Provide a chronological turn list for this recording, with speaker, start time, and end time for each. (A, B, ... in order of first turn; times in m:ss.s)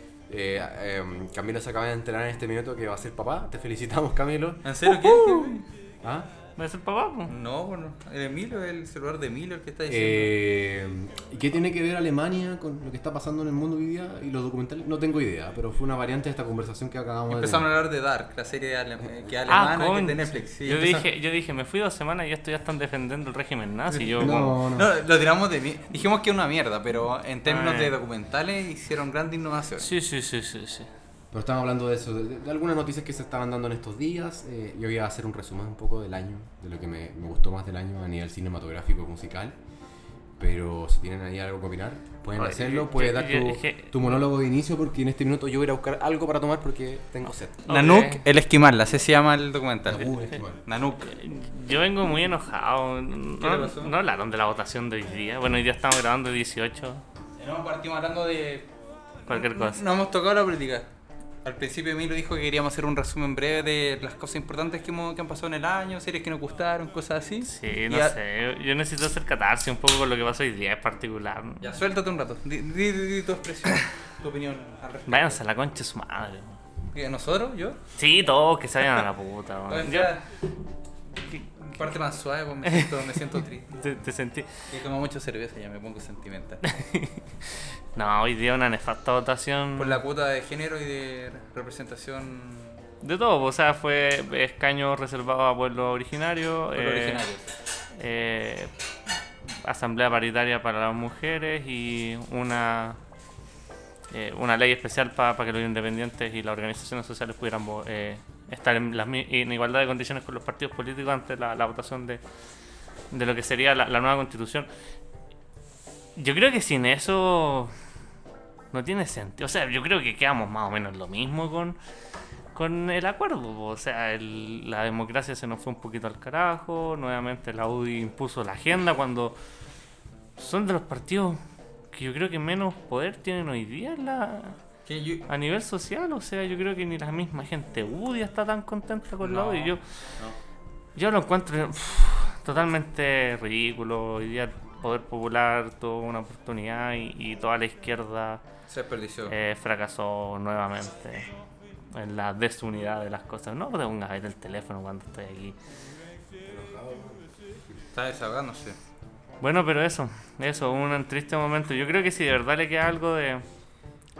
0:00.3-0:04.7 A
0:04.6-0:05.7 B
0:04.8-0:05.6 C
0:06.0-0:06.3 A
0:06.6-0:07.3 C
0:07.3-0:10.4 B
0:09.9-0:17.7 A
0:17.3-0:21.1 B
0:19.5-0:24.6 C
0:23.9-0:24.9 A
0:24.2-0:29.9 B
0:27.4-0:27.9 C
0:29.8-0:30.9 C
0:31.3-0:39.6 A
0:40.4-0:47.7 A
0:42.4-0:44.2 C
0:47.7-0:48.2 C
0:47.7-0:51.1 B
0:49.8-0:50.6 A
0:51.0-0:57.0 C
0:53.4-0:53.9 B
0:57.4-0:58.7 B
0:59.3-0:59.8 C
0:59.3-1:00.9 B
1:01.4-1:08.2 B
1:07.4-1:11.7 C
1:11.6-1:15.4 B
1:15.1-1:16.6 C
1:16.9-1:17.8 B
1:18.0-1:20.1 C
1:19.7-1:20.3 B
1:21.3-1:21.9 C
1:21.6-1:23.8 B
1:22.6-1:24.7 C
1:24.7-1:26.6 B
1:26.6-1:27.2 C
1:27.9-1:30.0 C
1:29.8-1:32.8 B
1:33.0-1:37.2 C
1:36.7-1:37.5 B
1:38.0-1:38.7 C
1:39.6-1:43.0 C
1:44.1-1:52.2 C
1:53.1-1:54.7 C
1:56.2-1:57.7 C
1:58.7-2:01.8 C
2:02.5-2:09.4 C
2:10.4-2:11.4 C
2:11.9-2:14.6 C
2:14.8-2:15.3 B
2:15.3-2:19.8 C
2:19.2-2:20.4 B
2:21.0-2:28.4 C
2:28.7-2:29.3 B
2:29.3-2:31.3 C
2:31.9-2:35.6 C
2:36.4-2:37.3 A
2:37.9-2:38.8 B
2:39.4-2:43.4 C